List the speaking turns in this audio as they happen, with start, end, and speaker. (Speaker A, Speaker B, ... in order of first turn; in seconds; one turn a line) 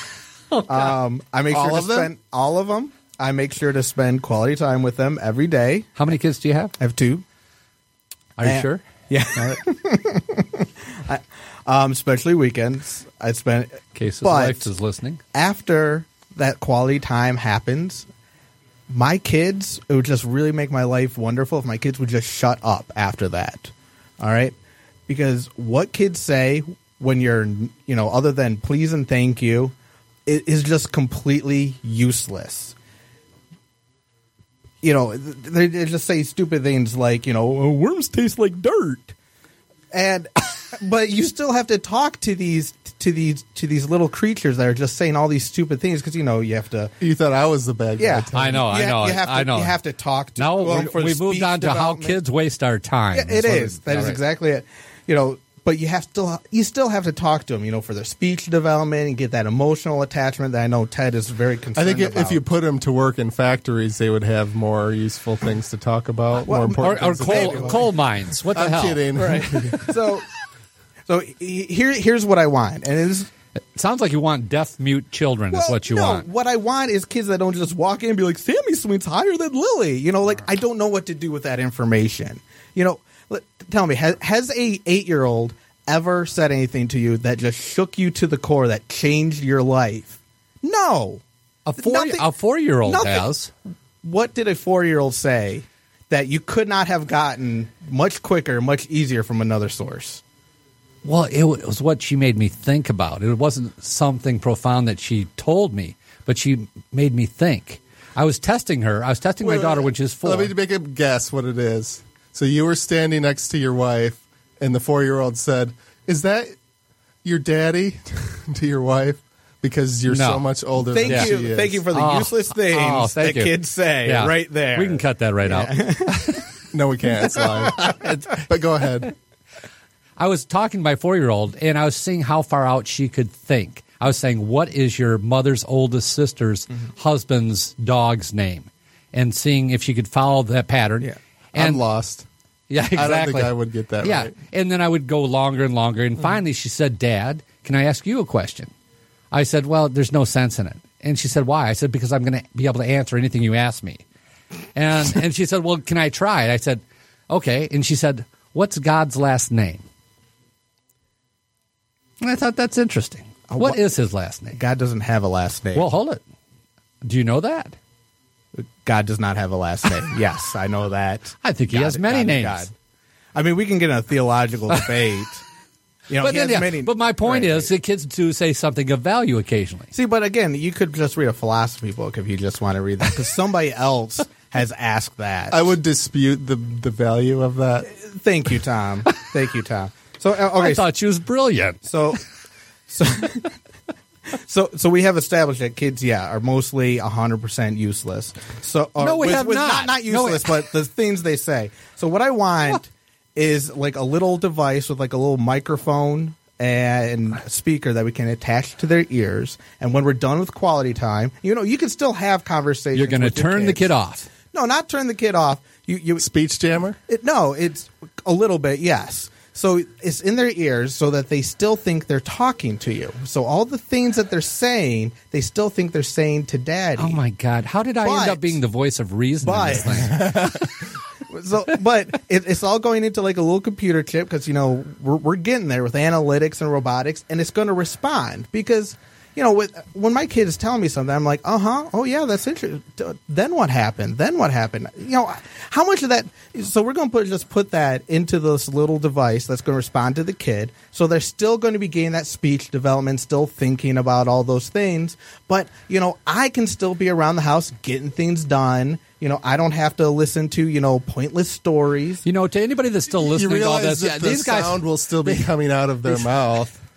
Speaker A: 0.6-0.9
Speaker B: 0.7-5.9
Speaker C: 1.5-2.1
Speaker A: 6.0-6.7
Speaker B: 6.8-7.2
Speaker A: 8.4-8.8
Speaker B: 8.4-14.7
Speaker A: 13.9-15.2
Speaker B: 15.3-18.1
Speaker B: 18.9-24.6
Speaker B: 25.1-29.7
Speaker B: 30.2-32.8
Speaker B: 34.8-39.1
Speaker B: 39.9-46.9
Speaker C: 47.0-48.6
Speaker B: 48.0-52.2
Speaker A: 48.3-49.8
Speaker A: 50.4-54.2
Speaker B: 53.1-62.4
Speaker C: 61.8-67.9
Speaker B: 66.5-67.8
Speaker A: 66.8-69.0
Speaker C: 68.5-69.9
Speaker B: 69.2-70.2
Speaker B: 71.1-73.3
Speaker A: 73.8-76.3
Speaker B: 75.5-91.2
Speaker A: 91.7-93.5
Speaker B: 91.8-92.3
Speaker B: 92.8-93.3
Speaker B: 94.0-100.2
Speaker A: 101.0-110.5
Speaker C: 109.4-116.5
Speaker C: 117.2-121.8
Speaker A: 120.1-120.5
Speaker B: 120.9-126.4
Speaker A: 121.0-121.3
Speaker A: 121.9-126.5
Speaker C: 126.7-129.1
Speaker A: 127.8-128.3
Speaker A: 130.2-141.8
Speaker C: 141.6-142.2
Speaker A: 142.7-148.7
Speaker C: 142.9-144.3
Speaker A: 149.3-154.0
Speaker A: 154.7-159.8
Speaker A: 162.2-164.6
Speaker B: 163.5-163.8
Speaker B: 164.5-165.8
Speaker A: 165.7-166.2
Speaker A: 167.0-167.7
Speaker B: 168.6-172.7
Speaker A: 171.4-172.7
Speaker B: 173.3-175.4
Speaker B: 176.1-177.7
Speaker A: 176.2-179.9
Speaker B: 179.9-185.6
Speaker C: 185.5-187.9
Speaker B: 187.9-190.8
Speaker A: 190.6-191.8
Speaker B: 191.8-192.2
Speaker B: 192.9-193.5
Speaker B: 194.3-213.9
Speaker A: 199.0-200.6
Speaker A: 212.9-214.3
Speaker B: 214.5-216.2
Speaker C: 216.2-217.0
Speaker B: 217.1-227.2
Speaker A: 227.0-230.6
Speaker B: 228.0-228.6
Speaker B: 229.4-230.3
Speaker C: 230.1-230.6
Speaker B: 231.3-262.2
Speaker A: 262.2-265.5
Speaker C: 263.2-266.7
Speaker A: 266.1-266.7